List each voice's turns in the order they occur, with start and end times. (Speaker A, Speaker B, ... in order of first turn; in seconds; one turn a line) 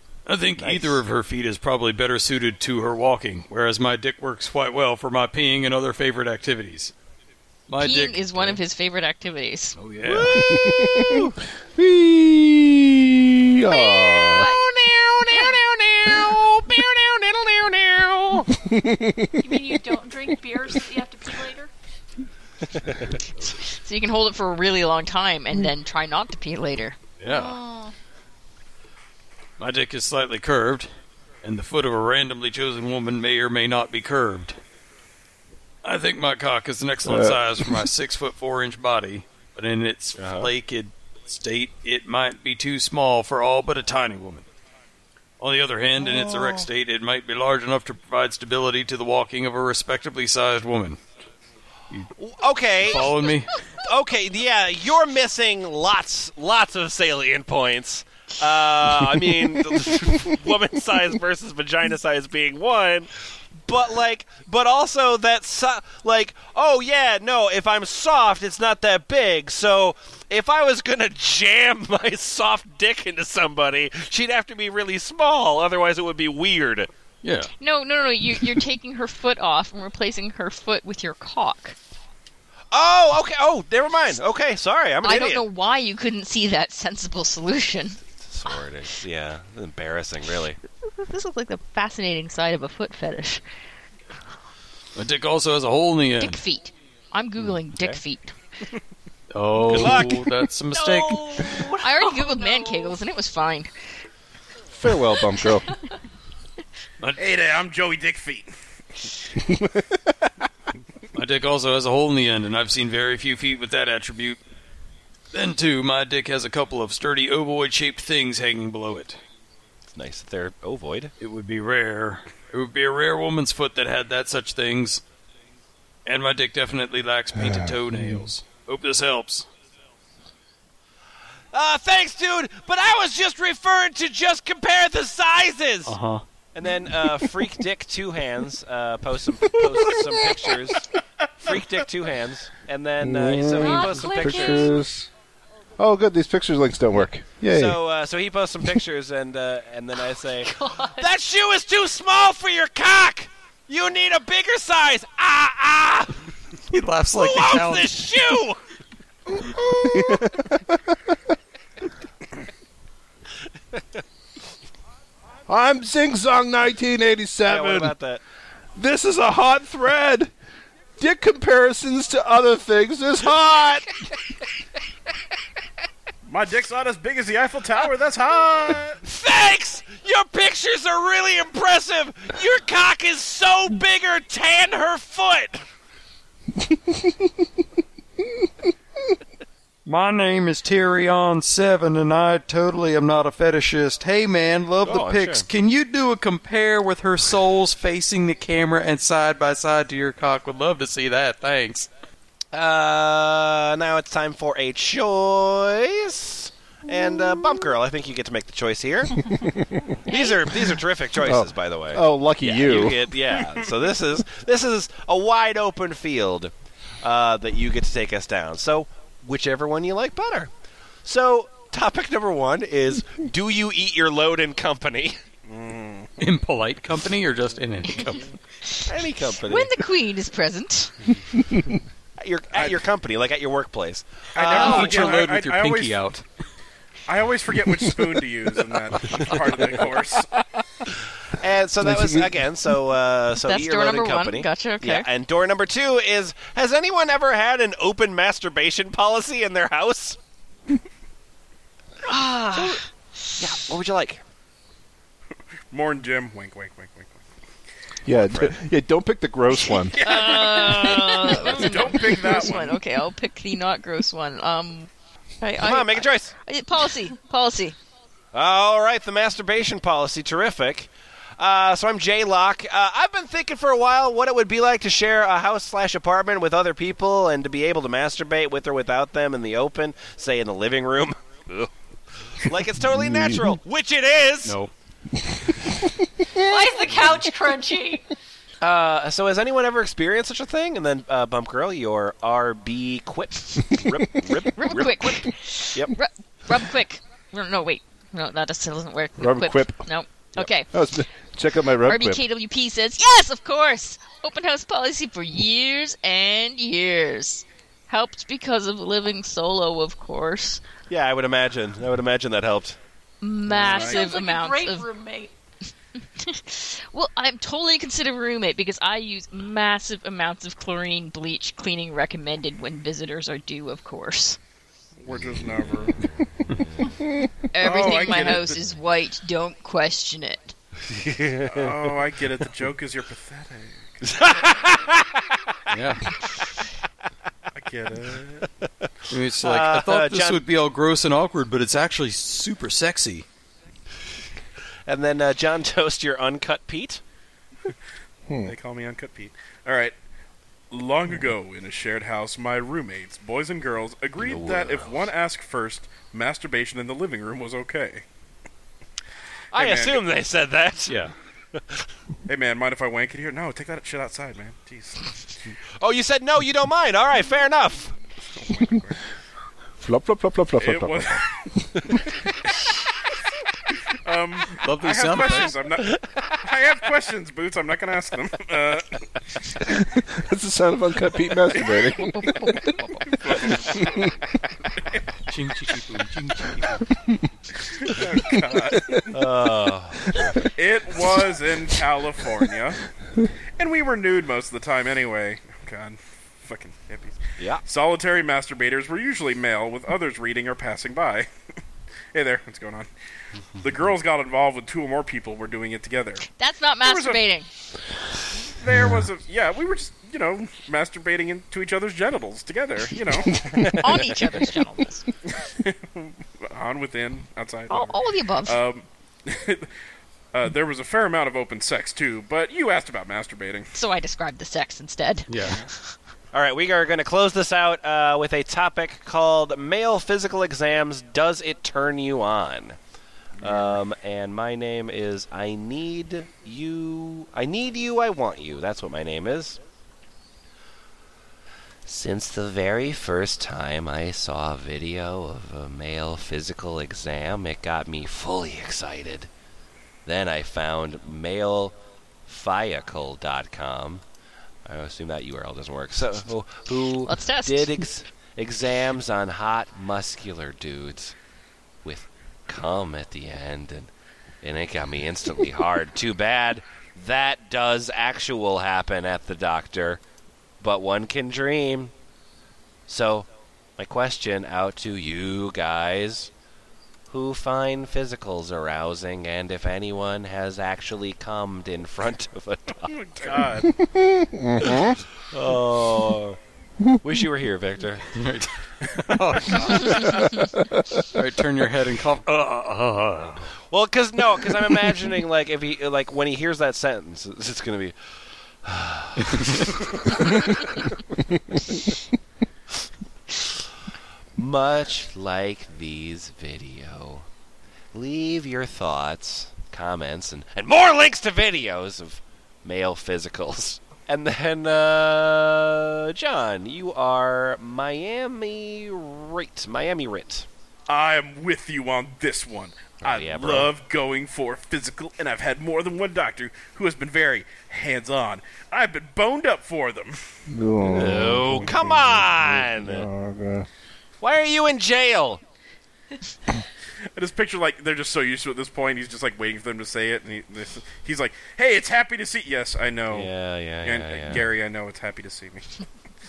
Speaker A: 0.3-6.9
Speaker B: 0.6-1.0
Speaker A: 7.7-8.6
Speaker C: 7.8-9.8
Speaker A: 9.8-10.4
Speaker B: 10.1-11.4
Speaker D: 10.4-14.5
Speaker E: 13.8-14.6
Speaker B: 14.3-18.5
Speaker D: 18.5-19.8
Speaker E: 19.4-21.7
Speaker C: 23.4-27.0
Speaker A: 27.2-27.6
Speaker E: 27.3-27.9
Speaker A: 29.6-30.9
Speaker A: 31.4-34.6
Speaker A: 35.8-44.5
Speaker D: 37.0-37.9
Speaker B: 40.2-40.5
Speaker A: 45.4-51.0
Speaker B: 46.0-46.6
Speaker B: 52.2-53.1
Speaker A: 52.8-53.5
Speaker B: 53.8-76.9
Speaker A: 77.2-77.5
Speaker C: 77.6-81.8
Speaker B: 82.7-85.5
Speaker C: 85.0-88.0
Speaker B: 88.2-90.6
Speaker C: 90.8-93.4
Speaker A: 95.0-96.4
Speaker C: 96.2-98.3
Speaker B: 97.7-98.0
Speaker A: 99.3-101.5
Speaker B: 99.7-100.3
Speaker E: 100.7-103.0
Speaker C: 101.8-103.7
Speaker D: 104.8-105.7
Speaker E: 105.4-105.8
Speaker F: 107.2-108.5
Speaker D: 109.4-110.3
Speaker A: 111.1-114.4
Speaker A: 115.3-119.2
Speaker B: 119.9-121.1
Speaker A: 121.2-125.0
Speaker A: 126.0-129.5
Speaker D: 127.4-128.3
Speaker B: 131.5-135.9
Speaker A: 135.9-136.2
Speaker B: 136.5-144.8
Speaker D: 143.0-145.1
Speaker E: 143.6-144.7
Speaker D: 145.8-147.8
Speaker B: 147.5-156.2
Speaker E: 150.5-151.1
Speaker A: 156.7-157.9
Speaker B: 157.2-158.6
Speaker D: 159.5-161.1
Speaker B: 159.6-160.2
Speaker D: 165.5-167.9
Speaker B: 167.4-168.2
Speaker D: 168.8-170.3
Speaker D: 171.0-174.0
Speaker F: 176.3-179.0
Speaker B: 179.0-185.6
Speaker D: 186.7-187.3
Speaker A: 189.9-201.9
Speaker B: 194.8-195.5
Speaker B: 202.5-209.4
Speaker D: 209.2-210.0
Speaker B: 210.1-220.5
Speaker D: 211.2-213.2
Speaker B: 221.1-225.2
Speaker F: 225.5-226.1
Speaker A: 226.2-228.3
Speaker C: 228.7-228.9
Speaker B: 228.9-229.8
Speaker C: 229.4-230.9
Speaker D: 231.4-231.8
Speaker B: 232.2-235.2
Speaker F: 232.5-232.8
Speaker F: 234.3-236.0
Speaker A: 234.5-236.2
Speaker F: 237.1-240.3
Speaker B: 241.3-250.2
Speaker D: 241.8-242.4
Speaker C: 243.4-245.1
Speaker C: 252.1-252.9
Speaker B: 252.5-252.8
Speaker B: 253.4-254.2
Speaker F: 255.7-257.2
Speaker D: 258.1-260.0
Speaker B: 258.3-258.5
Speaker F: 260.0-262.8
Speaker C: 260.0-264.9
Speaker B: 260.0-261.9
Speaker C: 265.4-267.8
Speaker B: 265.6-266.4
Speaker B: 268.3-281.7
Speaker B: 282.3-284.6
Speaker D: 282.8-283.6
Speaker A: 284.4-284.7
Speaker D: 285.2-286.3
Speaker E: 286.4-288.1
Speaker B: 288.6-295.9
Speaker D: 293.9-294.3
Speaker C: 294.6-300.7
Speaker D: 299.2-299.9
Speaker D: 300.7-302.2
Speaker C: 301.8-310.6
Speaker B: 310.9-312.8
Speaker C: 313.2-314.9
Speaker F: 313.5-314.1
Speaker E: 313.6-315.3
Speaker C: 316.2-324.4
Speaker F: 325.0-326.1
Speaker B: 325.2-326.9
Speaker C: 327.5-330.6
Speaker F: 327.6-328.6
Speaker B: 330.9-331.9
Speaker F: 331.5-334.0
Speaker B: 334.1-335.6
Speaker A: 335.7-336.1
Speaker F: 337.5-338.5
Speaker B: 338.6-338.9
Speaker A: 339.1-343.3
Speaker B: 339.4-340.4
Speaker B: 344.9-347.0
Speaker D: 348.3-348.5
Speaker F: 348.4-349.9
Speaker F: 350.7-358.0
Speaker B: 354.2-355.1
Speaker B: 359.5-361.0
Speaker F: 359.5-360.0
Speaker A: 360.9-361.1
Speaker B: 361.5-361.9
Speaker F: 362.3-365.2
Speaker B: 365.8-367.9
Speaker F: 368.4-369.0
Speaker D: 369.8-371.9
Speaker F: 370.6-371.5
Speaker F: 374.0-379.0
Speaker A: 374.6-375.5
Speaker B: 375.8-376.2
Speaker D: 379.7-382.6
Speaker F: 381.5-381.9
Speaker C: 382.1-383.2
Speaker F: 383.1-384.1
Speaker A: 385.3-386.9
Speaker F: 387.8-389.2
Speaker D: 388.7-389.0
Speaker B: 389.1-390.5
Speaker F: 390.6-392.8
Speaker F: 393.6-401.3
Speaker F: 402.1-402.9
Speaker F: 403.6-406.3
Speaker C: 406.3-407.5
Speaker F: 406.8-407.2
Speaker F: 408.4-413.4
Speaker D: 408.7-409.1
Speaker B: 413.5-414.1
Speaker C: 413.7-415.1
Speaker F: 415.3-419.7
Speaker C: 417.7-418.6
Speaker F: 420.3-423.7
Speaker C: 423.8-425.9
Speaker A: 425.3-425.6
Speaker B: 426.3-432.8
Speaker F: 433.4-433.8
Speaker B: 433.4-439.6
Speaker B: 441.9-449.3
Speaker B: 450.1-451.8
Speaker B: 452.3-454.0
Speaker B: 454.7-461.1
Speaker C: 457.1-457.8
Speaker B: 461.8-463.9
Speaker B: 464.4-470.0
Speaker B: 470.6-471.9
Speaker B: 472.9-476.3
Speaker B: 477.1-483.5
Speaker F: 482.9-483.7
Speaker D: 483.6-485.0
Speaker B: 485.3-486.4
Speaker B: 487.0-488.1
Speaker A: 488.1-493.3
Speaker B: 492.3-493.1
Speaker B: 493.7-498.0
Speaker B: 498.6-501.0
Speaker B: 504.4-507.3
Speaker B: 507.9-520.5
Speaker F: 520.9-530.2
Speaker B: 523.0-523.7
Speaker D: 530.5-533.7
Speaker B: 530.9-533.1
Speaker B: 534.2-535.4
Speaker F: 537.2-543.3
Speaker B: 543.1-544.5
Speaker F: 543.8-545.8